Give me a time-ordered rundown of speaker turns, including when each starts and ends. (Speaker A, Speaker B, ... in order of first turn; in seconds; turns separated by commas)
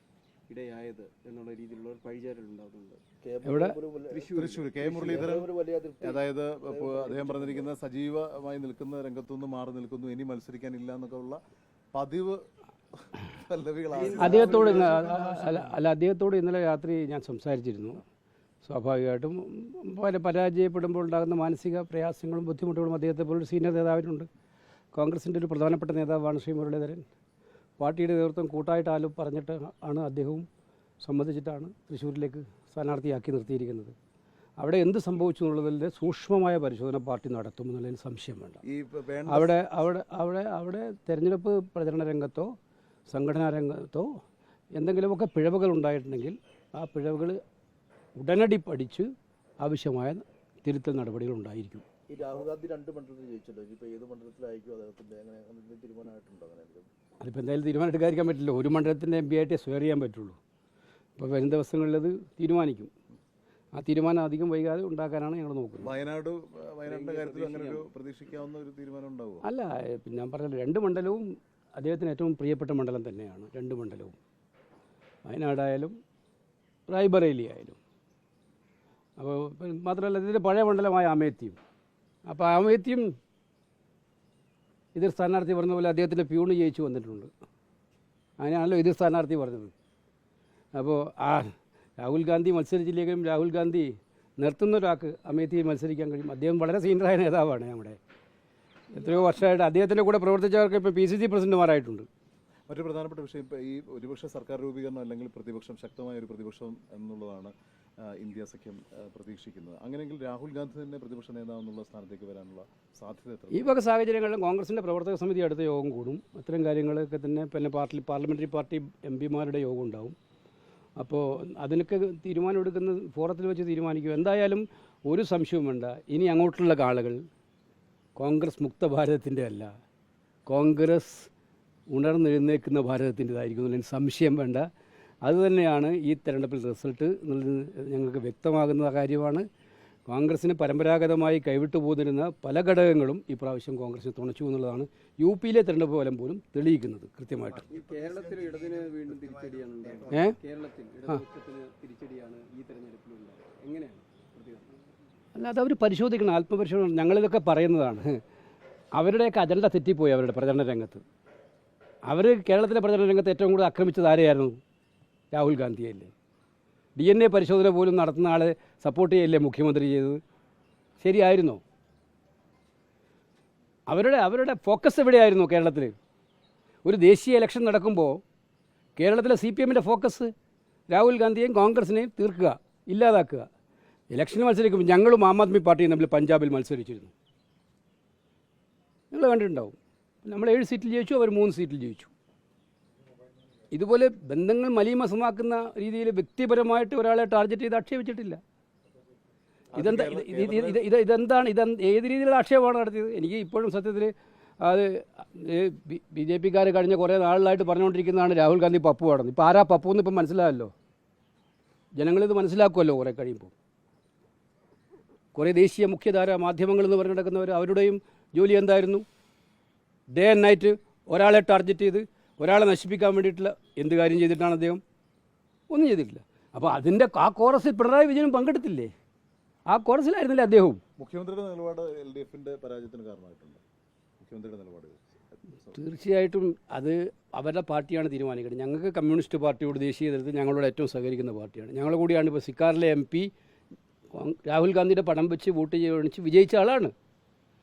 Speaker A: 0.5-3.0, Speaker B: 3.2-7.7, Speaker C: 3.4-3.8, Speaker A: 4.1-5.2, Speaker D: 4.3-11.4, Speaker D: 11.9-12.4, Speaker D: 13.0-15.5, Speaker A: 13.9-15.3, Speaker B: 14.1-14.9, Speaker C: 14.2-18.0, Speaker C: 18.6-24.3, Speaker C: 24.9-27.1, Speaker C: 27.8-30.4, Speaker C: 31.0-33.9, Speaker C: 34.6-38.6, Speaker D: 38.6-39.6, Speaker C: 39.3-42.5, Speaker C: 43.1-44.1, Speaker C: 44.7-47.4, Speaker C: 48.1-49.1, Speaker C: 49.6-51.8, Speaker B: 52.1-56.9, Speaker C: 57.2-60.4, Speaker C: 61.2-62.9, Speaker C: 63.7-66.0, Speaker D: 65.8-69.5, Speaker A: 66.8-67.9, Speaker C: 69.4-71.2, Speaker C: 71.8-74.2, Speaker C: 75.2-75.9, Speaker C: 76.9-77.8, Speaker C: 79.2-81.6, Speaker C: 82.3-83.1, Speaker C: 84.9-87.3, Speaker C: 88.4-89.7, Speaker C: 90.7-98.0, Speaker C: 98.9-102.1, Speaker D: 102.7-113.8, Speaker C: 113.5-120.1, Speaker C: 121.0-127.2, Speaker C: 128.2-129.7, Speaker C: 130.5-131.3, Speaker C: 131.9-134.7, Speaker C: 135.2-139.4, Speaker C: 140.1-147.7, Speaker A: 147.7-154.7, Speaker B: 148.0-150.1, Speaker C: 150.1-150.3, Speaker C: 155.3-158.2, Speaker C: 158.9-161.0, Speaker C: 162.0-164.6, Speaker C: 165.3-166.1, Speaker C: 166.9-170.2, Speaker C: 171.0-171.6, Speaker C: 173.9-175.9, Speaker C: 176.8-178.2, Speaker C: 179.0-180.3, Speaker C: 180.9-183.5, Speaker C: 184.1-187.1, Speaker C: 189.1-192.1, Speaker C: 193.7-198.4, Speaker D: 199.7-200.8, Speaker C: 199.7-210.7, Speaker C: 211.9-213.5, Speaker C: 215.3-219.0, Speaker C: 220.1-224.8, Speaker C: 225.7-228.9, Speaker C: 229.7-230.8, Speaker D: 231.0-233.6, Speaker D: 234.2-235.8, Speaker C: 235.7-243.3, Speaker C: 244.1-246.9